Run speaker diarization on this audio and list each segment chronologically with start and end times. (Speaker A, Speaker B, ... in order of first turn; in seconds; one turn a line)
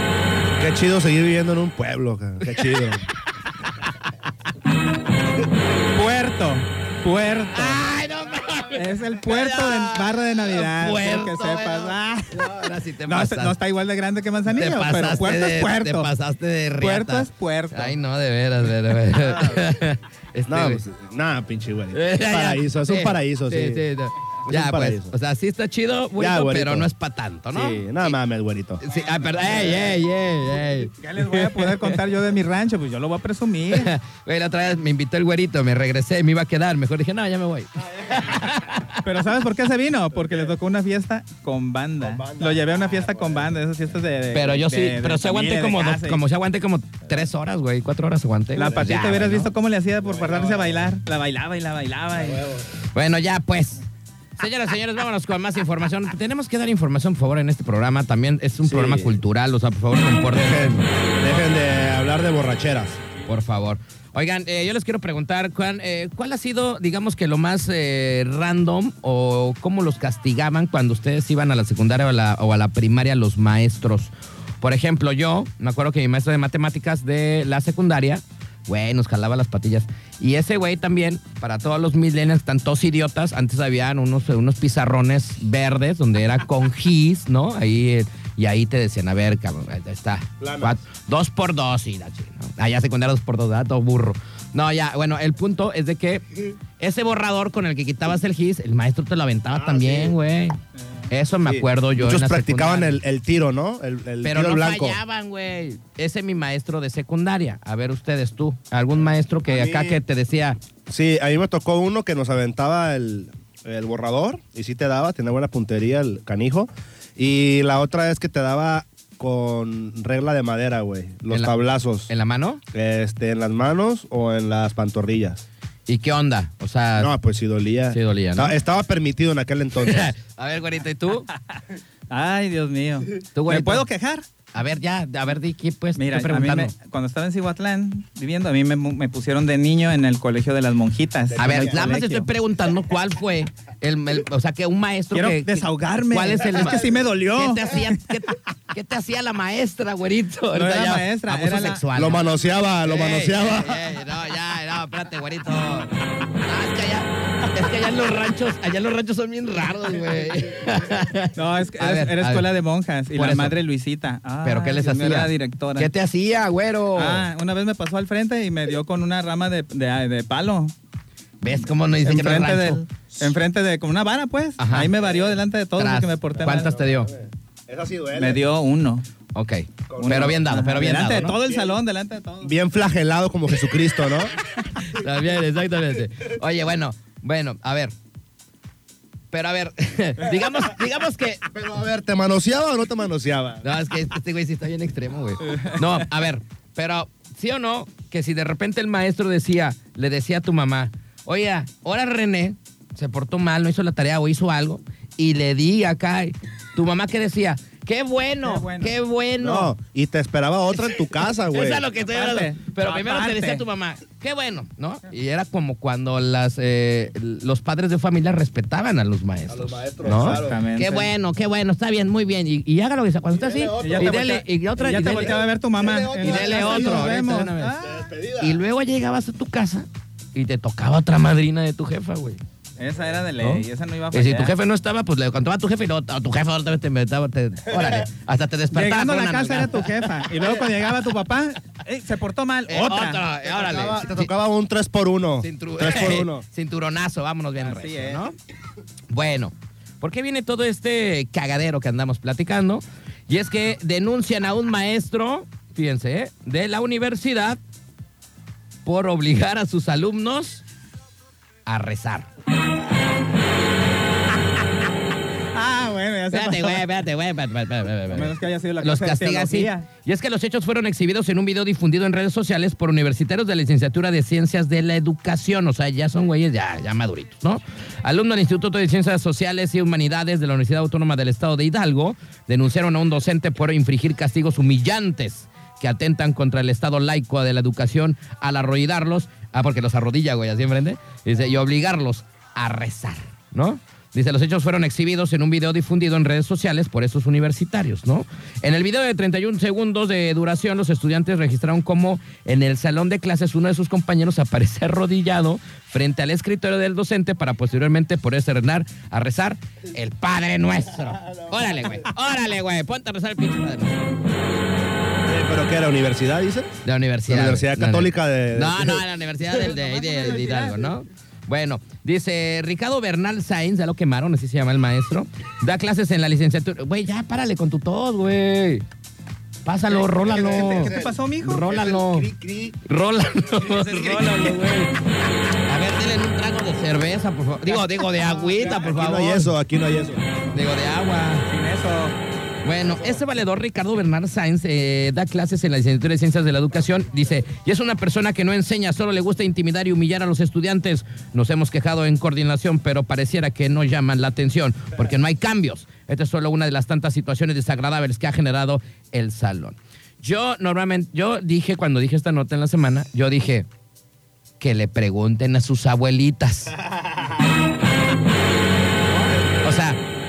Speaker A: 0.5-3.0
Speaker B: 5.9-7.8
Speaker C: 7.5-13.6
Speaker B: 8.7-16.1
Speaker C: 14.5-20.8
Speaker B: 16.8-17.9
Speaker A: 19.2-19.7
Speaker A: 20.5-23.9
Speaker C: 21.9-28.1
Speaker A: 24.4-25.1
Speaker A: 26.2-26.9
Speaker A: 27.5-28.8
Speaker C: 28.8-31.9
Speaker B: 31.0-33.9
Speaker C: 33.7-39.0
Speaker B: 39.0-46.2
Speaker A: 42.0-43.5
Speaker C: 44.3-49.5
Speaker B: 48.5-52.5
Speaker A: 48.6-48.9
Speaker A: 50.0-50.9
Speaker A: 52.1-52.6
Speaker C: 52.9-53.8
Speaker C: 54.4-60.8
Speaker A: 58.6-59.1
Speaker A: 60.3-63.0
Speaker C: 63.2-100.6
Speaker A: 90.4-90.8
Speaker A: 99.5-100.2
Speaker C: 101.1-103.0
Speaker A: 101.4-105.0
Speaker C: 104.2-110.6
Speaker A: 109.5-110.0
Speaker A: 110.9-122.1
Speaker C: 121.3-122.6
Speaker A: 122.7-125.4
Speaker C: 125.9-127.1
Speaker A: 127.0-130.1
Speaker C: 127.9-128.6
Speaker C: 129.8-131.3
Speaker B: 132.1-134.2
Speaker C: 133.3-133.8
Speaker C: 134.5-136.7
Speaker B: 135.9-142.3
Speaker A: 141.3-141.8
Speaker C: 141.4-152.3
Speaker B: 145.1-148.0
Speaker B: 150.5-151.8
Speaker A: 151.9-153.9
Speaker C: 152.8-155.9
Speaker C: 156.4-162.4
Speaker B: 161.3-165.9
Speaker C: 163.1-163.6
Speaker C: 164.4-167.3
Speaker B: 166.9-170.7
Speaker C: 171.4-173.3
Speaker B: 172.0-176.7
Speaker C: 174.6-174.9
Speaker A: 174.9-175.3
Speaker C: 175.8-177.1
Speaker A: 176.3-178.4
Speaker B: 178.1-179.0
Speaker C: 179.3-181.4
Speaker A: 179.9-180.4
Speaker B: 180.0-182.5
Speaker A: 181.4-181.8
Speaker A: 182.4-184.3
Speaker C: 184.7-187.9
Speaker C: 189.3-191.4
Speaker A: 191.5-193.6
Speaker C: 193.6-209.7
Speaker B: 208.4-208.9
Speaker A: 209.4-211.9
Speaker C: 211.5-225.4
Speaker B: 212.0-213.6
Speaker A: 219.5-220.6
Speaker B: 220.2-221.1
Speaker A: 223.3-224.4
Speaker B: 223.8-227.9
Speaker A: 225.4-227.2
Speaker C: 226.2-227.8
Speaker A: 227.8-228.6
Speaker C: 228.4-232.4
Speaker B: 232.8-234.5
Speaker C: 233.4-240.0
Speaker A: 237.7-238.0
Speaker B: 238.7-243.2
Speaker C: 242.7-244.3
Speaker A: 243.4-246.4
Speaker C: 245.4-248.3
Speaker B: 247.6-248.3
Speaker C: 249.1-257.6
Speaker C: 258.8-260.6
Speaker C: 261.6-262.3
Speaker B: 265.5-266.9
Speaker C: 266.3-314.0
Speaker B: 268.1-269.9
Speaker A: 311.2-312.0
Speaker A: 315.2-319.0
Speaker C: 316.8-328.8
Speaker B: 319.5-320.9
Speaker C: 329.6-332.3
Speaker B: 329.9-331.7
Speaker A: 330.2-332.8
Speaker C: 332.8-334.9
Speaker A: 333.4-334.4
Speaker C: 335.6-339.5
Speaker B: 338.0-338.6
Speaker A: 338.5-340.3
Speaker C: 340.5-341.4
Speaker B: 341.5-342.2
Speaker C: 342.6-363.6
Speaker C: 364.6-366.7
Speaker A: 366.8-367.6
Speaker C: 369.1-370.0
Speaker A: 369.3-369.8